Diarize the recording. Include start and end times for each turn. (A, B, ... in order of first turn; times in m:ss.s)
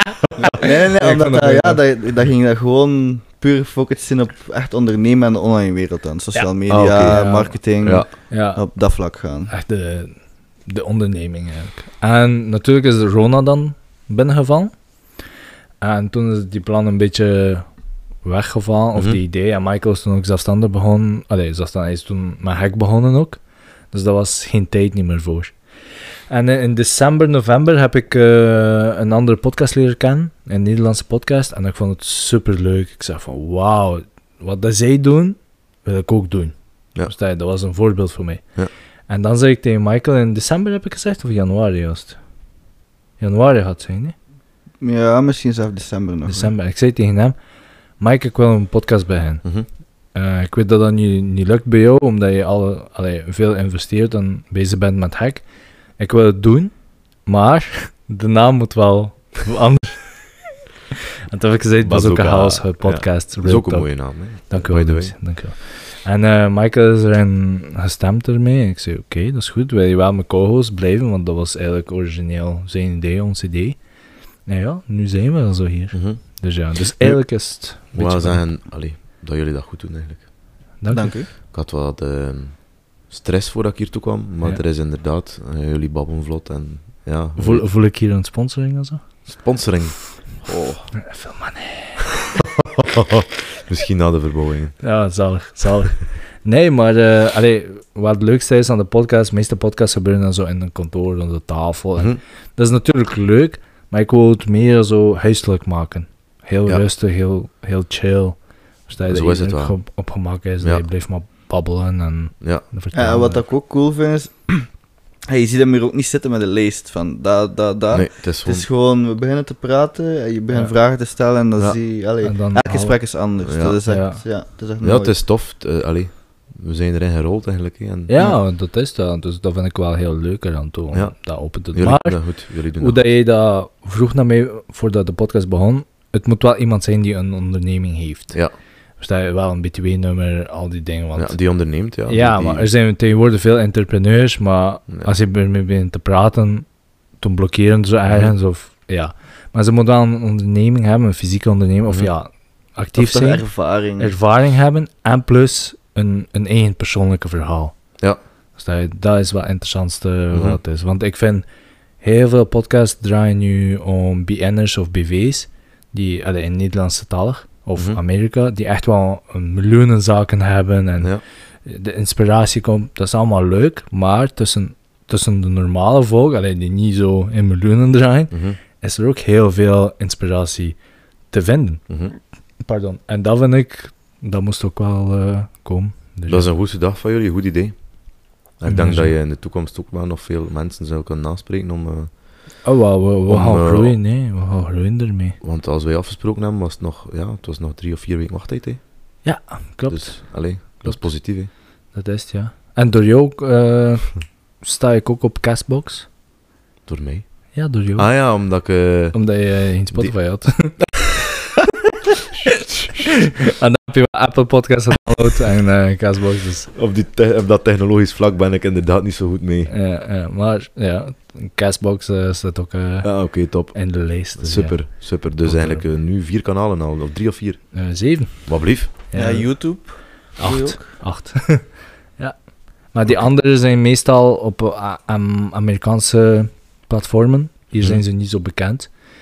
0:00.4-0:09.5 A
0:00.6-0:01.8 B
0:06.3-0:15.0 B
0:06.7-0:08.1 C
0:15.8-0:17.7 B
0:18.2-0:25.6 B
0:18.9-0:19.2 C
0:26.3-0:38.6 B
0:39.1-0:42.2 B
0:43.2-0:44.1 B
0:44.8-0:46.5 A
0:46.2-0:47.4 B
0:48.0-1:00.4 B
1:01.3-1:13.8 B
1:01.8-1:05.2 C
1:14.4-1:18.5 B
1:15.9-1:20.3 C
1:20.8-1:21.2 B
1:20.9-1:21.3 A
1:21.4-1:27.7 C
1:27.4-1:29.0 B
1:29.2-1:30.9 C
1:31.0-1:32.0 B
1:32.6-1:34.8 C
1:34.8-1:53.4 B
1:49.1-1:49.8 C
1:50.6-1:50.8 C
1:52.4-1:52.6 C
1:52.9-2:05.2 A
1:57.9-1:58.7 C
2:00.5-2:00.7 B
2:02.2-2:03.0 B
2:03.4-2:03.8 C
2:03.8-2:04.2 B
2:04.8-2:08.1 C
2:08.1-2:38.0 B
2:10.9-2:13.1 C
2:21.1-2:22.7 C
2:28.1-2:28.3 C
2:32.9-2:34.2 A
2:38.6-2:41.4 B
2:40.3-2:40.6 C
2:42.0-3:00.8 B
2:47.8-2:48.0 C
2:58.3-2:58.6 C
3:01.3-3:02.0 B
3:01.9-3:02.1 C
3:02.6-3:06.5 B
3:06.3-3:12.6 C
3:08.6-3:09.1 B
3:12.6-3:15.4 B
3:13.3-3:14.0 C
3:15.4-3:19.3 C
3:19.2-3:26.1 B
3:19.9-3:21.5 C
3:26.8-3:30.8 C
3:27.5-3:31.0 B
3:33.4-3:36.7 B
3:36.7-3:39.7 C
3:39.7-3:45.8 B
3:43.0-3:47.8 C
3:47.7-3:49.8 B
3:48.4-3:48.9 C
3:49.1-3:51.0 A
3:50.3-3:58.9 B
3:57.8-3:58.0 C